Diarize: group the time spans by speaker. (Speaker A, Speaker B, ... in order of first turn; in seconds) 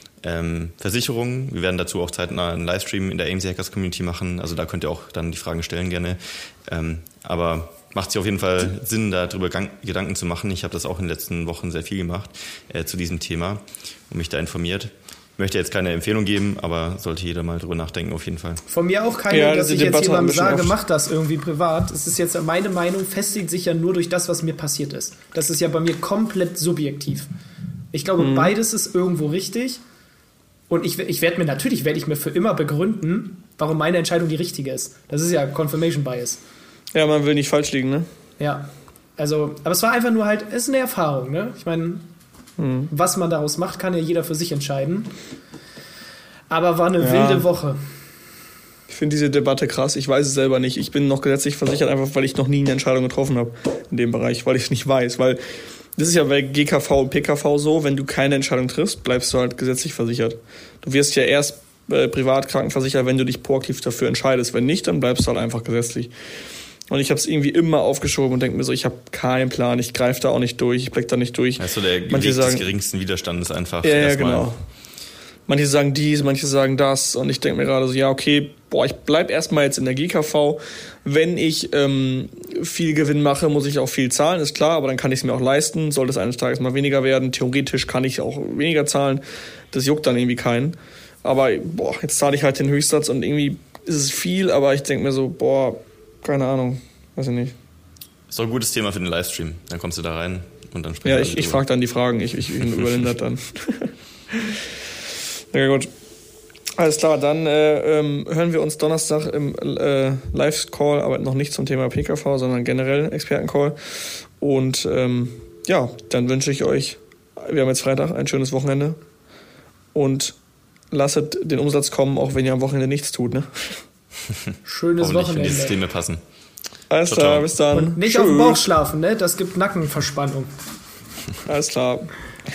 Speaker A: 0.2-18.6, 71.6-74.5, 98.3-101.6, 125.0-126.2, 127.1-127.5
Speaker B: 18.7-27.3, 27.9-29.8, 30.7-36.4, 38.4-42.1, 42.9-45.1, 46.5-47.8, 124.7-125.8, 127.7-130.5
Speaker C: 19.3-20.7, 28.2-28.5, 36.9-38.1, 42.6-42.9, 47.0-47.5, 48.9-55.4, 56.0-66.1, 66.9-72.7, 73.8-74.6, 75.5-97.5, 101.0-104.6, 105.5-105.9, 106.8-119.0, 119.9-120.4, 120.9-123.8, 126.9-128.6, 131.5-132.1